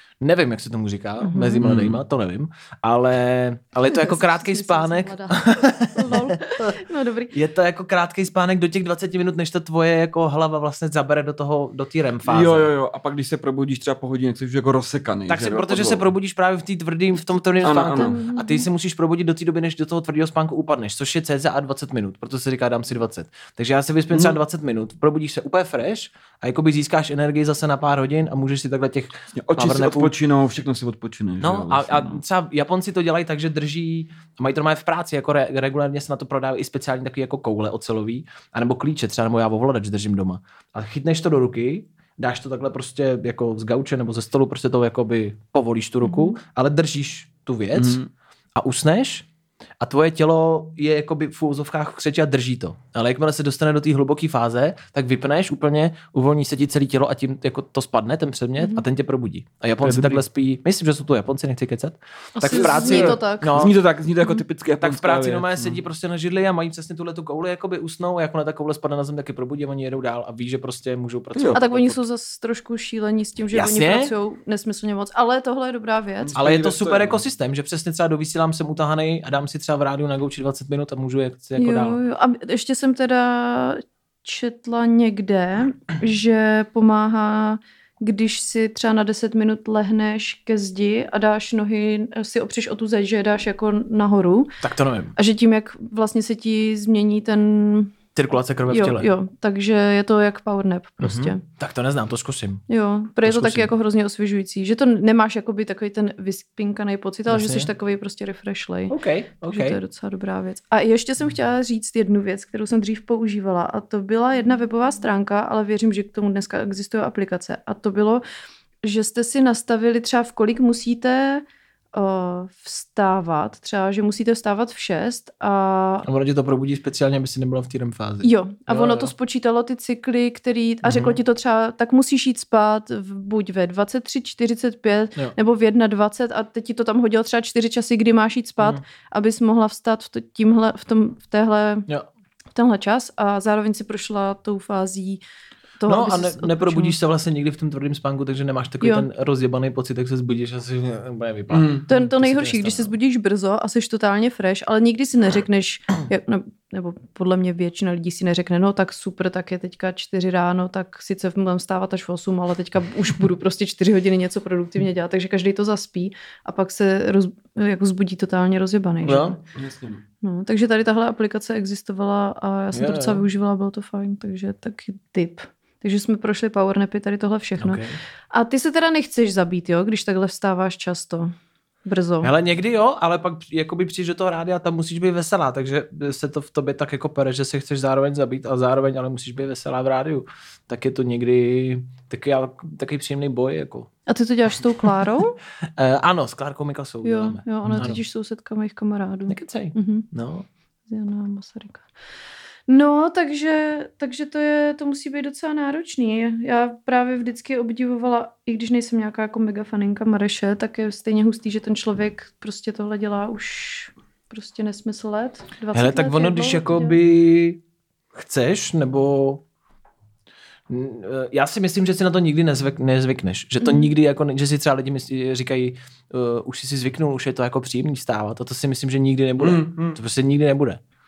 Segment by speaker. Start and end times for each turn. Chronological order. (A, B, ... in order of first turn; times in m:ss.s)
0:00.2-0:06.8 A
0:01.2-0:01.7 B
0:01.6-0:02.0 C
0:03.8-0:07.3 B
0:07.3-0:12.7 A
0:12.2-0:16.1 C
0:15.3-0:30.1 A
0:17.6-0:18.1 C
0:17.9-0:18.7 B
0:24.1-0:24.4 C
0:29.3-0:32.2 C
0:31.4-0:48.0 A
0:46.0-0:46.4 B
0:47.8-0:48.0 C
0:48.6-0:49.2 A
0:49.8-1:03.8 A
0:58.6-0:58.8 B
0:59.8-1:00.2 C
1:02.4-1:03.7 B
1:02.5-1:05.8 C
1:04.8-1:12.0 A
1:11.3-1:11.6 C
1:11.5-1:16.4 B
1:13.5-1:14.1 A
1:16.2-1:17.2 C
1:16.4-1:22.0 A
1:21.6-1:34.6 B
1:34.6-1:35.1 A
1:35.2-1:38.0 B
1:38.1-1:39.1 A
1:38.7-1:41.4 B
1:41.0-1:42.6 A
1:42.7-1:58.2 B
1:43.2-1:43.7 A
1:47.3-1:47.7 A
1:48.9-1:49.8 A
1:58.8-2:06.0 B
2:06.0-2:09.1 A
2:08.2-2:21.9 B
2:10.8-2:11.2 A
2:22.5-2:25.2 B
2:25.8-2:27.0 B
2:25.8-2:32.9 A
2:28.8-2:29.1 B
2:31.5-2:31.8 C
2:31.9-2:49.4 B
2:49.0-2:49.4 A
2:49.5-2:50.0 C
2:50.2-3:01.3 B
2:52.7-2:53.2 A
2:57.6-2:58.0 A
3:01.8-3:02.3 B
3:02.2-3:13.9 A
3:14.1-3:15.4 B
3:15.8-3:18.0 A
3:17.0-3:20.1 B
3:19.3-3:20.5 A
3:20.9-3:21.8 B
3:22.7-3:37.0 B
3:35.7-3:37.6 A
3:38.1-3:39.4 A
3:40.7-3:50.8 A
3:43.6-3:43.9 B
3:49.4-3:50.0 C